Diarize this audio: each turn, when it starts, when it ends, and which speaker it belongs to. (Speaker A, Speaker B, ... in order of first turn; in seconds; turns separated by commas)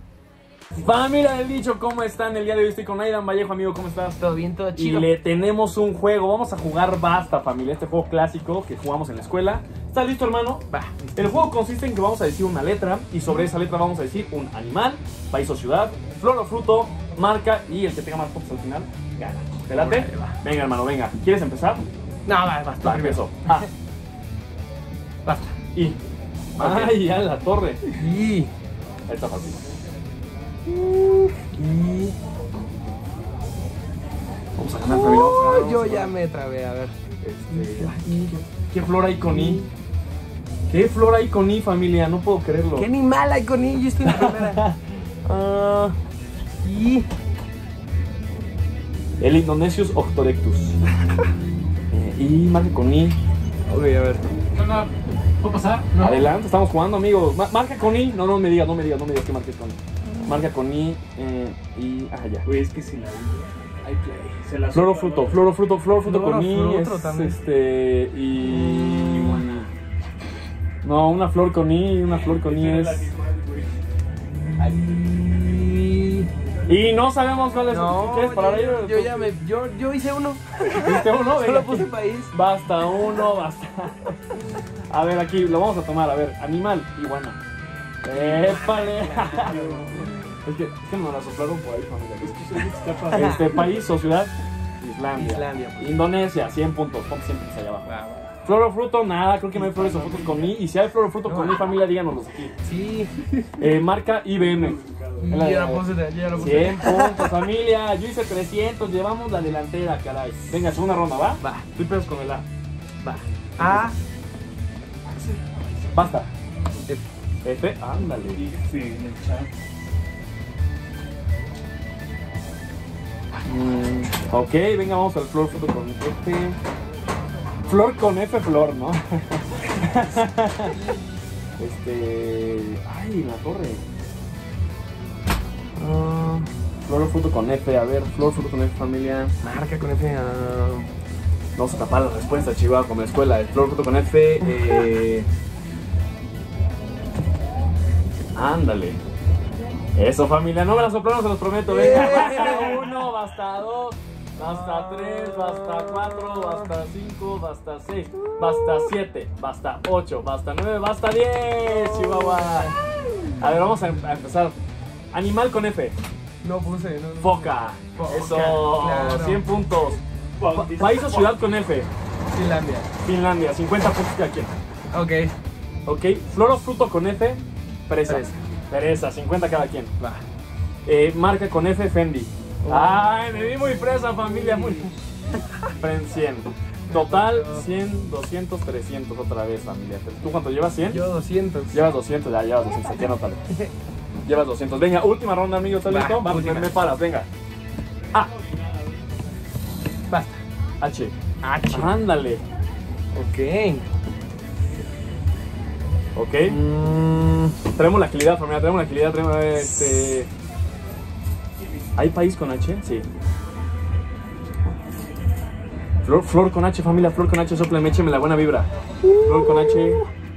Speaker A: 0.7-4.2, Speaker B: 4.2-5.1, Speaker A: 4.8-21.8, Speaker B: 10.7-11.5, Speaker B: 19.7-20.3, Speaker B: 22.3-23.7, Speaker A: 22.8-23.7, Speaker B: 25.2-25.5, Speaker A: 26.6-27.8, Speaker B: 26.6-26.9, Speaker B: 27.9-28.5, Speaker A: 29.1-29.6, Speaker B: 30.7-32.1, Speaker A: 34.6-36.1, Speaker B: 34.7-36.9, Speaker A: 37.2-39.6, Speaker B: 37.5-38.3, Speaker B: 39.2-39.7, Speaker A: 40.7-42.9, Speaker B: 42.7-44.6, Speaker A: 44.0-44.8, Speaker B: 45.2-46.0, Speaker B: 46.6-47.1, Speaker A: 49.2-50.8, Speaker A: 51.9-53.2, Speaker B: 53.7-54.2, Speaker C: 54.6-54.8, Speaker C: 55.4-56.0, Speaker A: 55.9-62.5, Speaker C: 62.5-65.4, Speaker B: 62.5-63.2, Speaker B: 63.9-64.6, Speaker A: 64.7-69.7, Speaker B: 66.0-67.4, Speaker B: 68.4-69.5, Speaker A: 70.8-73.1, Speaker C: 72.3-73.6, Speaker B: 74.5-76.3, Speaker A: 76.7-79.3, Speaker B: 77.7-82.3, Speaker A: 80.7-84.2, Speaker A: 84.9-87.4, Speaker A: 88.0-92.5, Speaker B: 88.1-90.1, Speaker C: 89.4-89.9, Speaker C: 92.3-93.3, Speaker B: 92.7-93.5, Speaker A: 93.1-97.9, Speaker B: 95.1-96.0, Speaker B: 97.8-98.3, Speaker A: 98.4-102.5, Speaker C: 99.6-100.4, Speaker B: 101.2-101.7, Speaker B: 102.6-103.5, Speaker A: 103.6-112.4, Speaker B: 105.2-107.3, Speaker B: 111.4-111.7, Speaker A: 113.0-113.9, Speaker B: 113.1-113.9, Speaker A: 115.9-116.3, Speaker A: 117.4-118.5, Speaker C: 118.5-119.5, Speaker A: 123.5-126.6, Speaker A: 127.6-130.8, Speaker A: 131.6-133.8, Speaker B: 135.8-136.5, Speaker A: 136.8-139.3, Speaker B: 139.4-140.9, Speaker A: 141.6-145.3, Speaker A: 148.3-149.0, Speaker A: 149.9-162.7, Speaker B: 151.7-153.0, Speaker B: 154.4-156.7, Speaker B: 158.4-158.9, Speaker B: 161.6-162.7, Speaker A: 163.4-164.6, Speaker A: 165.1-166.0, Speaker B: 166.4-169.4, Speaker A: 167.2-170.0, Speaker C: 170.4-170.9, Speaker A: 170.5-171.9, Speaker B: 172.3-172.9, Speaker A: 173.0-174.6, Speaker B: 174.9-175.3, Speaker A: 175.8-179.9, Speaker B: 178.1-178.3, Speaker A: 180.8-184.9, Speaker B: 182.6-184.9, Speaker A: 185.8-191.0, Speaker B: 186.9-187.7, Speaker B: 190.9-191.8, Speaker A: 191.7-193.4, Speaker A: 194.2-197.3, Speaker B: 195.8-196.7, Speaker B: 200.1-200.4, Speaker A: 200.8-202.4, Speaker B: 201.4-202.0, Speaker B: 203.1-203.8, Speaker A: 206.1-206.6, Speaker B: 206.4-207.6, Speaker A: 207.7-210.3, Speaker A: 211.9-213.1, Speaker A: 216.0-218.7, Speaker B: 219.0-220.1, Speaker A: 219.2-220.0